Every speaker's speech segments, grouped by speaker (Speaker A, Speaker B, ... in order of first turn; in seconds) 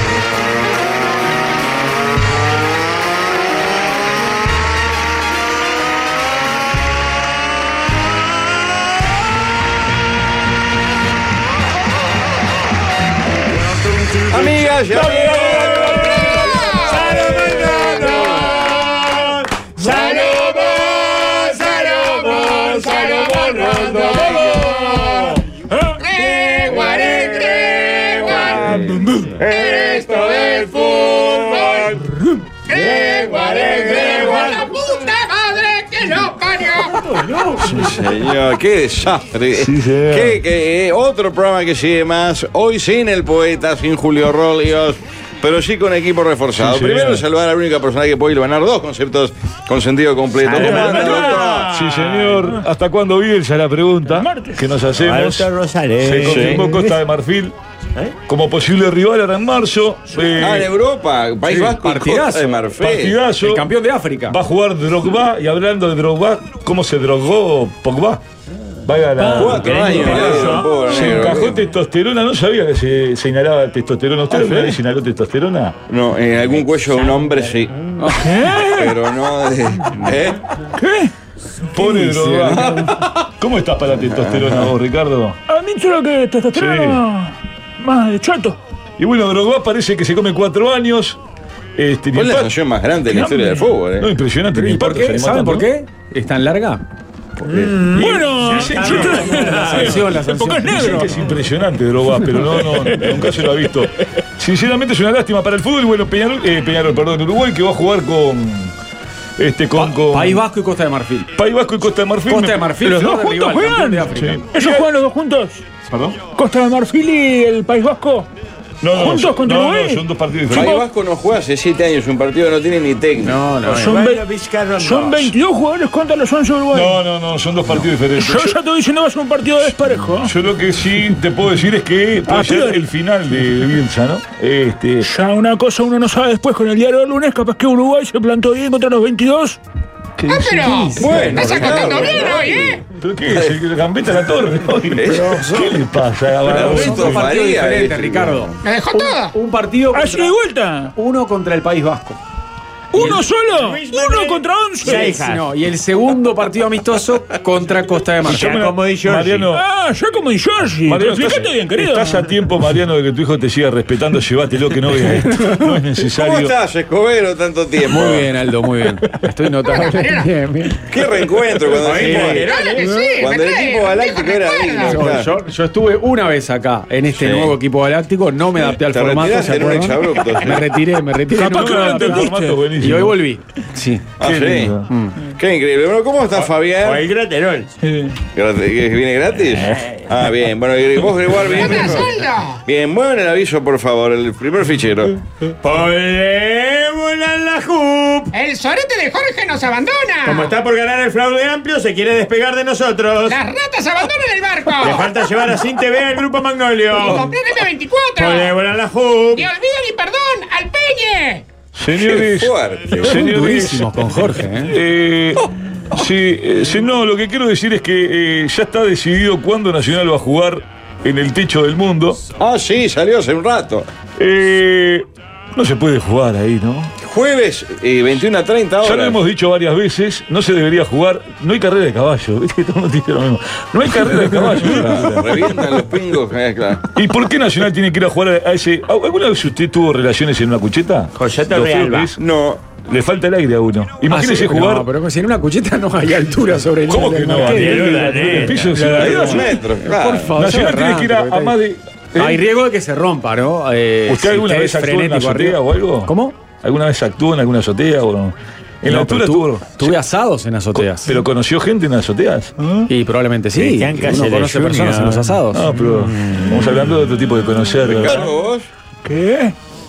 Speaker A: 13.8-25.4, 26.4-32.0, 32.7-34.7, 50.4-52.6, 54.9-57.0, 69.3-71.0, 97.5-100.0, 123.6-125.3, 153.0-155.4, 158.2-159.5, 171.8-173.2, 186.3-187.7, 189.6-189.9, 195.6-198.3, 200.2-203.4, 204.8-207.3, 208.2-209.5, 241.2-242.1, 247.3-248.8, 263.6-266.5
Speaker B: 14.3-16.4, 37.6-51.7, 56.2-56.6, 60.3-63.2, 69.3-71.7, 74.3-74.8, 75.9-80.4, 82.5-83.1, 84.2-84.7, 92.1-94.1, 120.5-123.4, 140.9-143.5, 144.9-145.8, 146.4-148.6, 166.1-168.3, 170.9-172.5, 173.2-175.3, 177.1-177.5, 178.7-180.7, 184.2-184.8, 185.3-187.1, 188.3-192.1, 192.7-195.2, 211.9-213.2, 222.4-223.9, 227.0-229.2, 234.8-236.9, 242.2-242.6, 248.9-250.3, 267.8-268.7
Speaker C: 16.5-17.0, 26.0-28.8, 29.4-31.9, 32.7-37.1, 140.3-142.8, 148.6-149.3, 169.6-170.3, 172.4-175.0, 191.5-192.6, 198.3-200.5, 203.2-205.1, 206.9-208.5, 209.3-211.4
Speaker D: 25.7-25.9, 29.0-29.3, 54.2-54.7, 78.2-79.0, 80.7-81.1, 85.5-88.6, 93.1-93.7, 97.9-101.1, 112.8-115.6, 116.3-118.3, 118.9-120.8, 123.7-124.2, 124.8-127.0, 128.1-130.3, 132.3-132.8, 135.0-139.6, 149.9-150.9, 152.9-155.2, 159.5-162.3, 181.3-182.6, 187.8-188.2, 269.0-269.6
Speaker E: 39.5-40.4, 46.5-47.2, 50.5-55.5, 56.0-57.5, 58.3-60.7, 62.7-63.7, 64.3-68.2, 68.8-75.8, 81.7-85.4, 86.5-87.0, 89.0-91.2, 91.8-92.5, 94.0-95.7, 100.7-108.8, 109.4-110.4, 111.3-112.8, 114.2-114.9, 115.9-116.2, 118.8-120.7, 126.7-128.6, 130.2-135.1, 140.4-140.8, 142.9-147.3, 158.2-159.6, 160.8-166.5, 181.4-183.2, 184.2-184.9, 211.7-222.2, 224.2-226.9, 228.8-235.4, 236.9-242.2, 242.8-244.9, 246.9-249.6, 250.3-252.4, 254.1-260.0, 260.7-262.7, 265.5-268.3
Speaker F: 61.5-62.6, 63.4-64.4, 94.5-96.8, 98.0-101.2, 109.8-111.3, 112.3-114.5, 123.2-124.0, 140.6-142.1, 146.5-150.3, 150.9-152.2, 154.8-158.6, 167.9-170.8, 171.8-172.4, 174.8-184.1, 184.9-185.2, 213.0-214.8, 244.1-251.6, 252.2-256.4, 258.9-261.1, 262.9-265.7